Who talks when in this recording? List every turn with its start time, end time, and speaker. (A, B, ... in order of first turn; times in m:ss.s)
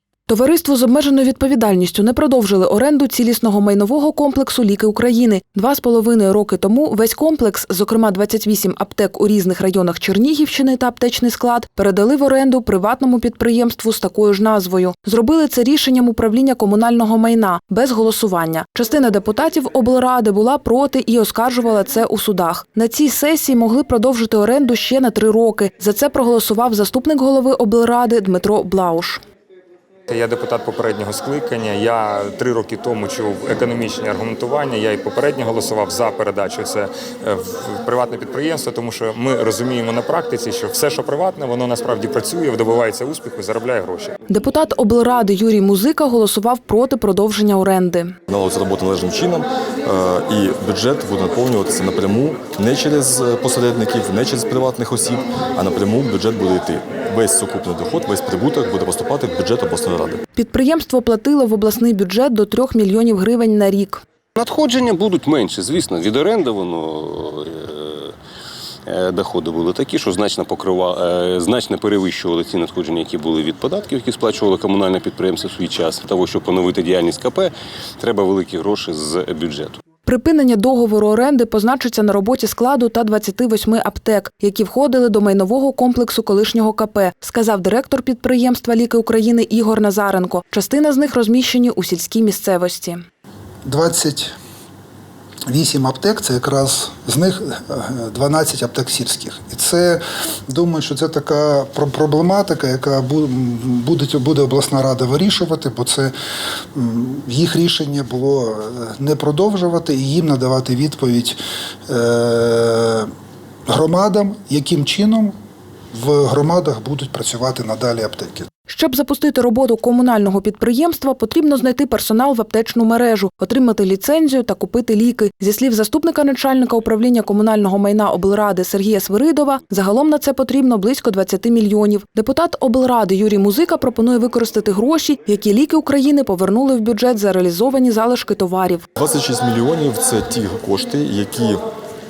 0:00.3-0:29.2 A
0:30.1-0:44.2 B
0:44.3-0:48.2 A
0:48.3-1:00.2 C
1:00.3-1:04.0 A
1:04.4-1:08.1 D
1:08.8-1:19.8 D
1:20.0-1:33.0 A
1:33.6-1:34.3 E
1:35.5-1:46.1 E
1:46.7-1:53.1 E
1:53.7-1:55.4 E
1:55.9-1:58.5 E
1:58.7-2:18.8 A
2:19.0-2:21.6 C